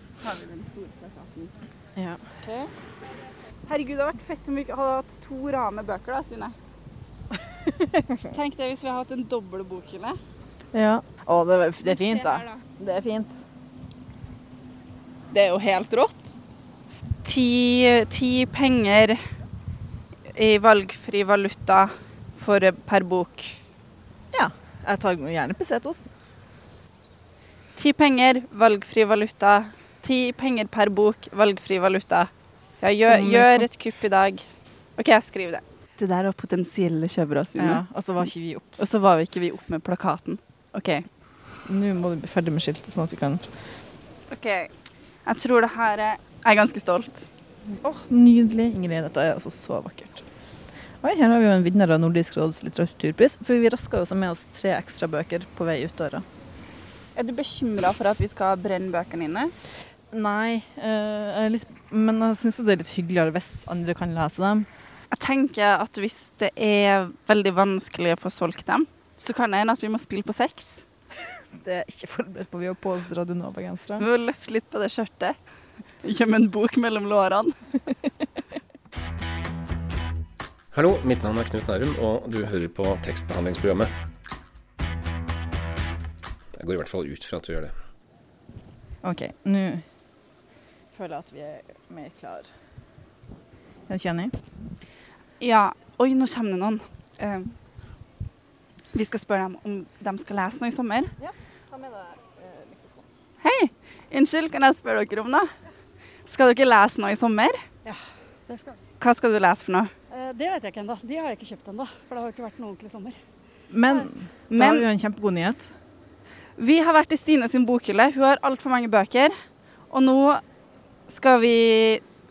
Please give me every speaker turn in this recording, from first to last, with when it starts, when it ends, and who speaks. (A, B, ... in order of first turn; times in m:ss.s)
0:00.2-0:01.6 A
0:02.0-0:02.2 B
0:02.4-0:02.7 A
0:03.7-0:06.6 A
0:07.7-0:08.3 B
0:08.3-0:10.2 A
0:10.7-0:13.4 B
0:11.8-0:12.6 A
0:15.3-0:16.3 A
0:17.2-0:19.2 A
0:20.3-0:23.6 A
0:24.3-0:26.1 B
0:27.8-0:34.5 A
0:33.0-0:33.7 B
0:35.0-0:37.8 A
0:37.6-0:39.0 B
0:38.8-0:41.1 A
0:41.7-0:43.5 B
0:44.3-0:44.7 A
0:45.3-0:47.3 A
0:47.8-0:50.2 B
0:51.0-0:56.2 B
0:57.2-0:59.5 A
1:00.1-1:04.7 B
1:05.1-1:10.8 A
1:11.6-1:14.0 B
1:14.0-1:15.4 A
1:16.0-1:17.6 A
1:20.7-1:23.9 C
1:26.6-1:27.7 C
1:29.0-1:29.8 B
1:30.9-1:32.5 B
1:33.9-1:34.3 B
1:35.4-1:37.6 A
1:38.9-1:41.1 A
1:41.2-1:43.0 B
1:43.4-1:45.5 A
1:46.3-1:47.7 A
1:47.8-1:48.8 D
1:49.0-1:49.9 A
1:50.1-1:53.2 D
1:53.7-1:55.7 B
1:54.5-1:54.9 A
1:56.6-1:59.4 A
1:59.9-2:00.4 A
2:01.1-2:02.0 A